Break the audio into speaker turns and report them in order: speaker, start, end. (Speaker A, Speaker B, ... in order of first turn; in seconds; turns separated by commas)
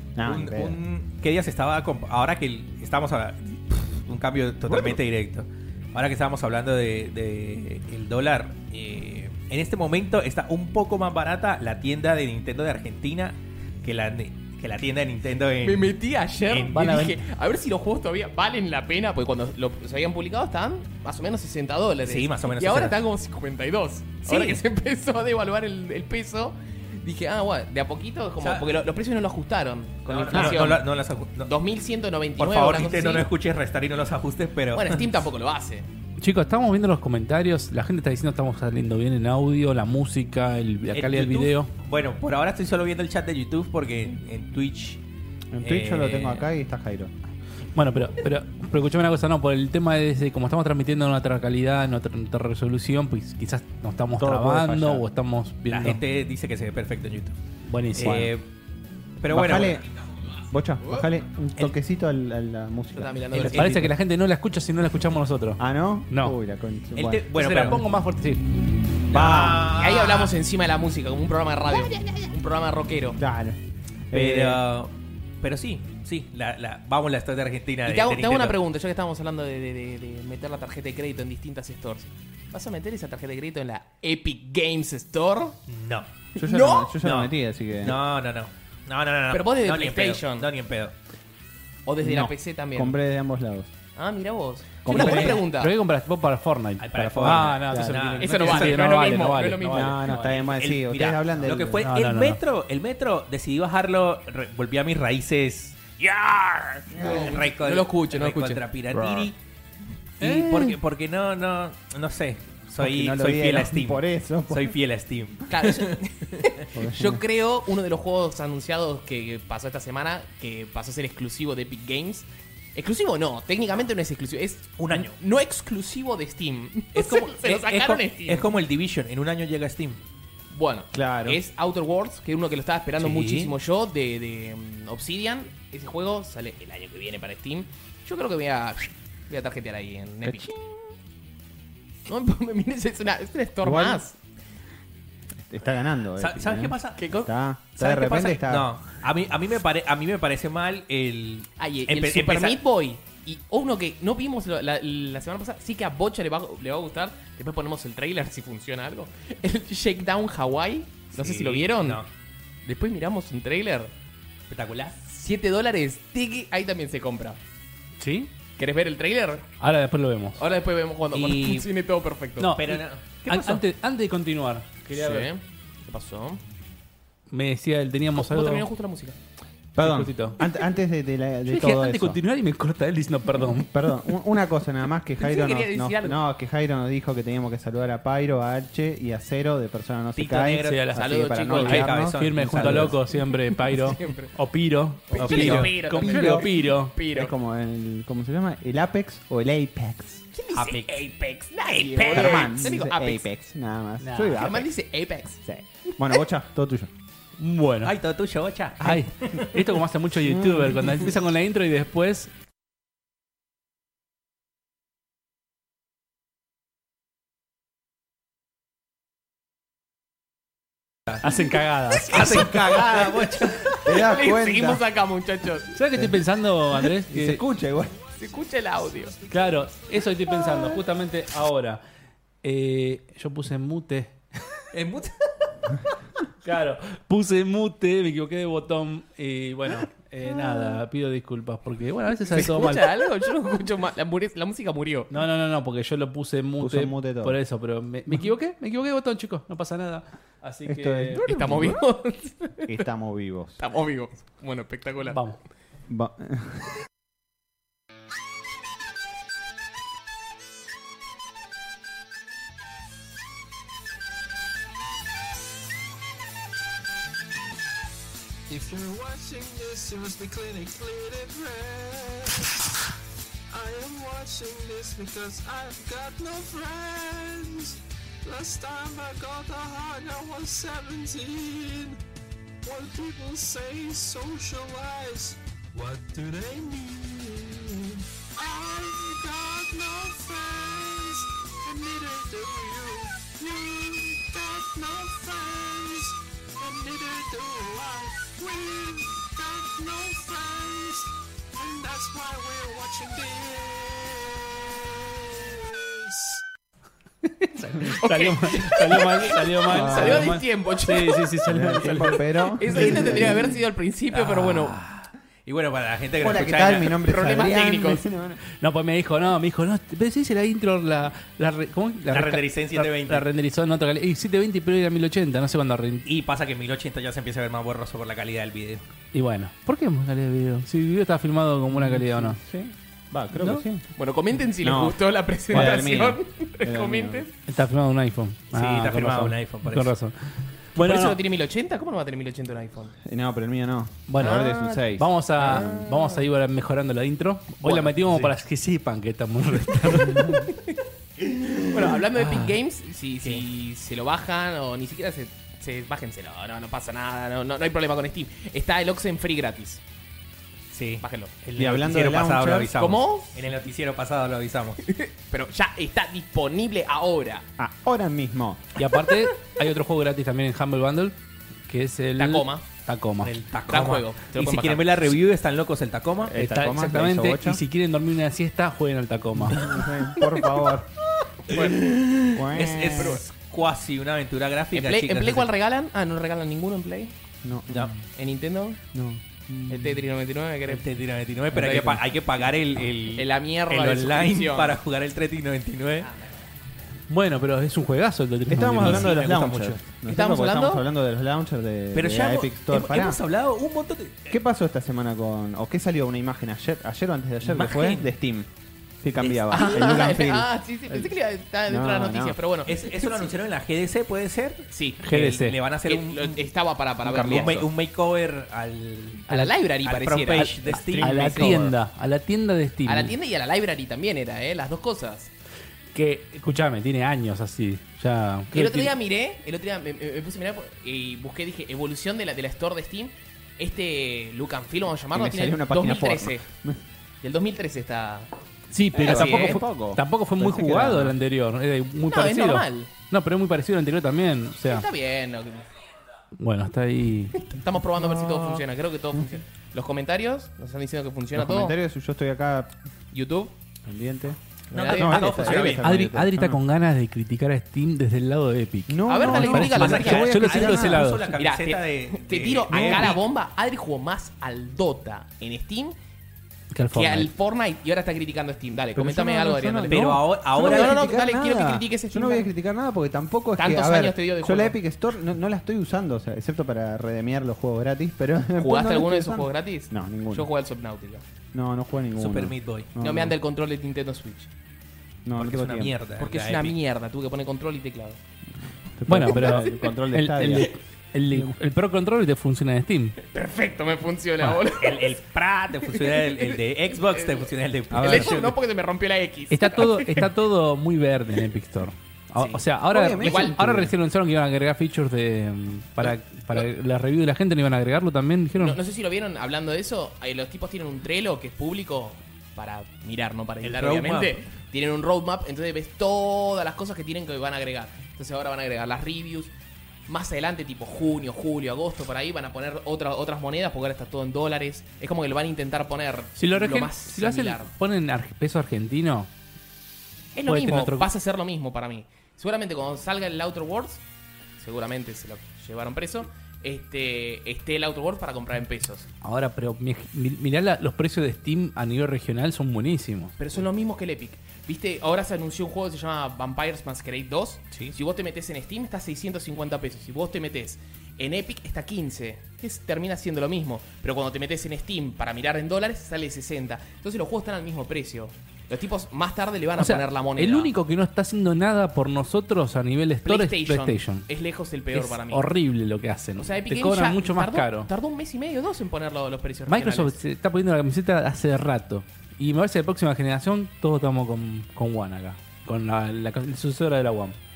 Speaker A: 0.2-0.8, Speaker B: 0.2-15.9, Speaker C: 15.6-30.9, Speaker B: 16.5-17.2, Speaker B: 22.1-23.0, Speaker B: 24.3-24.6, Speaker B: 28.4-28.8, Speaker B: 30.1-31.5, Speaker A: 30.3-30.6, Speaker C: 31.4-33.3, Speaker B: 32.4-35.2, Speaker C: 34.7-35.9, Speaker D: 36.2-41.7, Speaker B: 40.9-45.0, Speaker A: 45.5-47.1, Speaker B: 45.6-46.5, Speaker D: 47.8-56.0, Speaker A: 54.2-55.1, Speaker B: 55.7-57.4, Speaker D: 57.7-58.3, Speaker B: 57.9-58.4, Speaker A: 58.0-58.3, Speaker B: 59.2-59.9, Speaker A: 59.3-59.9, Speaker A: 60.5-63.7, Speaker C: 62.9-63.7, Speaker B: 63.3-63.9, Speaker D: 63.5-65.6, Speaker A: 65.6-67.3, Speaker D: 66.1-66.4, Speaker B: 67.0-67.8, Speaker D: 67.3-68.5, Speaker B: 69.1-70.3, Speaker A: 69.1-69.7, Speaker C: 69.6-73.2, Speaker A: 73.2-73.6, Speaker A: 74.1-74.6, Speaker B: 74.1-74.9, Speaker B: 75.4-78.6, Speaker C: 77.8-85.6, Speaker B: 85.7-86.1, Speaker C: 86.3-87.0, Speaker A: 86.4-88.0, Speaker B: 87.0-90.9, Speaker C: 89.3-90.5, Speaker C: 91.9-93.0, Speaker A: 92.0-93.7, Speaker C: 94.0-95.7, Speaker A: 94.8-95.5, Speaker D: 94.9-100.1, Speaker B: 96.8-99.3, Speaker A: 96.9-98.1, Speaker C: 98.2-100.3, Speaker A: 99.3-101.9, Speaker B: 100.1-106.0, Speaker D: 101.8-102.4, Speaker C: 106.0-108.6, Speaker A: 106.9-107.4, Speaker B: 106.9-109.4, Speaker A: 108.9-109.3, Speaker B: 110.2-116.0, Speaker A: 110.2-110.7, Speaker A: 112.8-114.8, Speaker C: 115.5-128.5, Speaker A: 116.8-117.2, Speaker B: 124.8-125.2, Speaker B: 127.0-130.0, Speaker C: 130.5-140.7, Speaker A: 130.9-131.4, Speaker B: 133.0-133.5, Speaker C: 142.1-144.2, Speaker A: 143.6-144.0, Speaker A: 145.4-148.7, Speaker B: 146.2-147.0, Speaker C: 147.0-147.3, Speaker B: 147.8-152.6, Speaker C: 151.6-162.0, Speaker B: 161.2-162.1, Speaker C: 162.7-163.9, Speaker B: 164.5-164.9, Speaker C: 165.1-167.4, Speaker D: 168.0-168.3, Speaker C: 168.6-169.5, Speaker D: 169.6-170.4, Speaker C: 170.4-172.6, Speaker B: 171.1-171.7, Speaker D: 172.4-175.3, Speaker B: 172.6-173.6, Speaker C: 174.9-176.4, Speaker D: 177.3-178.7, Speaker C: 178.1-179.2, Speaker A: 179.8-182.2, Speaker D: 179.8-180.4, Speaker D: 181.5-183.7, Speaker A: 183.3-193.0, Speaker C: 185.2-186.2, Speaker B: 190.2-190.9, Speaker D: 190.6-196.9, Speaker C: 191.0-191.8, Speaker B: 191.5-192.9, Speaker C: 193.1-194.3, Speaker C: 195.1-197.3, Speaker B: 195.2-195.7, Speaker A: 195.3-196.5, Speaker A: 197.1-200.3, Speaker C: 200.3-203.3, Speaker B: 200.6-201.0, Speaker B: 201.7-202.7, Speaker A: 201.9-204.7, Speaker D: 204.0-204.5, Speaker C: 204.4-205.4, Speaker A: 205.4-206.9, Speaker D: 207.4-207.9, Speaker B: 207.8-209.8, Speaker D: 208.8-212.3, Speaker A: 210.2-211.0, Speaker D: 221.2-222.4, Speaker B: 222.0-223.8, Speaker C: 222.2-222.5, Speaker A: 222.4-223.3, Speaker C: 223.7-225.7, Speaker A: 223.8-224.8, Speaker D: 225.7-227.4, Speaker A: 225.9-226.2, Speaker A: 227.1-227.9, Speaker C: 228.2-229.2, Speaker E: 228.8-230.1, Speaker D: 229.3-231.8, Speaker D: 232.4-234.2, Speaker D: 236.4-243.0, Speaker C: 242.3-245.1, Speaker D: 245.1-251.7, Speaker A: 246.6-247.4, Speaker A: 250.7-251.8, Speaker C: 251.2-252.8, Speaker A: 252.7-253.6, Speaker C: 253.6-255.2, Speaker D: 255.1-255.4, Speaker A: 255.9-256.7, Speaker E: 268.5-272.6, Speaker E: 273.5-282.0, Speaker E: 282.6-306.4, Speaker D: 307.2-313.1, Speaker C: 308.0-314.8, Speaker A: 309.7-310.4, Speaker A: 311.4-313.6, Speaker B: 314.1-317.0, Speaker A: 316.2-318.4, Speaker C: 317.1-318.0, Speaker D: 318.5-326.1, Speaker B: 322.1-323.3, Speaker B: 326.1-328.8, Speaker D: 329.1-332.4, Speaker A: 331.7-333.9, Speaker C: 333.9-337.3, Speaker A: 334.6-337.2, Speaker D: 337.5-340.1, Speaker B: 338.5-339.9, Speaker D: 340.8-341.2, Speaker C: 340.8-342.9, Speaker A: 343.0-345.8, Speaker D: 344.1-350.5, Speaker C: 344.2-344.9, Speaker C: 345.4-346.2, Speaker C: 350.2-350.8, Speaker C: 351.7-359.8, Speaker B: 360.7-364.8, Speaker C: 361.0-361.3, Speaker A: 361.6-362.8, Speaker C: 362.8-363.4, Speaker C: 364.8-367.5, Speaker A: 367.6-368.7, Speaker D: 368.8-371.2, Speaker D: 371.7-373.3, Speaker C: 372.2-372.6, Speaker B: 373.2-376.4, Speaker C: 373.7-375.1, Speaker A: 376.2-377.6, Speaker D: 376.4-379.6, Speaker A: 379.4-380.9, Speaker C: 381.5-381.8, Speaker B: 381.5-385.5, Speaker A: 382.3-383.2, Speaker C: 384.7-387.1, Speaker A: 387.4-388.1, Speaker C: 388.1-388.8, Speaker A: 388.9-390.1, Speaker C: 389.7-390.8, Speaker B: 390.7-396.1, Speaker A: 391.5-392.0, Speaker C: 393.2-394.8, Speaker D: 397.1-399.1, Speaker A: 398.5-403.2, Speaker B: 398.8-399.8, Speaker C: 400.1-400.8, Speaker B: 401.9-404.4, Speaker A: 404.3-408.5, Speaker B: 407.4-408.1, Speaker A: 409.0-411.1, Speaker B: 409.2-409.5, Speaker C: 409.5-413.3, Speaker A: 411.7-412.4, Speaker B: 412.7-416.4, Speaker C: 414.7-415.0, Speaker D: 415.0-415.6, Speaker C: 415.9-417.7, Speaker B: 417.0-421.7, Speaker C: 419.3-421.6, Speaker D: 421.0-423.1, Speaker C: 422.9-425.3, Speaker D: 425.9-428.9, Speaker C: 428.5-436.4, Speaker A: 435.1-436.8, Speaker C: 437.2-438.3, Speaker D: 438.7-444.9, Speaker A: 438.9-441.2, Speaker C: 439.0-439.6, Speaker C: 442.1-442.9, Speaker C: 444.6-445.7, Speaker D: 446.4-447.5, Speaker C: 447.4-451.8, Speaker A: 447.9-449.3, Speaker A: 451.4-452.7, Speaker C: 453.1-453.5, Speaker A: 453.9-456.6, Speaker C: 454.7-455.8, Speaker B: 454.7-455.8, Speaker D: 455.4-461.4, Speaker A: 458.9-461.1, Speaker C: 459.1-460.7, Speaker B: 459.6-463.2, Speaker C: 461.3-465.9, Speaker A: 462.7-463.2, Speaker D: 466.7-467.3, Speaker C: 466.9-472.5, Speaker A: 468.9-480.5, Speaker B: 469.9-471.1, Speaker C: 473.6-474.8, Speaker C: 478.6-481.2, Speaker A: 481.5-483.4, Speaker B: 482.2-482.9, Speaker C: 483.0-484.5, Speaker A: 485.2-485.9, Speaker B: 485.4-486.8, Speaker C: 486.2-488.2, Speaker A: 489.0-490.7, Speaker D: 489.1-493.2, Speaker C: 489.3-489.9, Speaker C: 493.2-495.2, Speaker B: 494.8-498.6, Speaker C: 495.8-500.3, Speaker A: 497.9-498.4, Speaker D: 499.5-508.8, Speaker C: 502.4-502.6, Speaker A: 502.9-503.9, Speaker C: 503.2-503.6, Speaker C: 506.0-506.6, Speaker C: 508.6-519.5, Speaker B: 513.6-514.4, Speaker C: 520.1-527.7, Speaker D: 526.4-529.3, Speaker C: 530.4-534.0, Speaker D: 530.5-531.1, Speaker C: 534.6-539.1, Speaker D: 539.2-543.4, Speaker C: 543.4-560.7, Speaker D: 559.8-564.3, Speaker C: 563.2-565.5, Speaker D: 564.9-567.9, Speaker C: 566.4-570.2, Speaker D: 569.7-577.4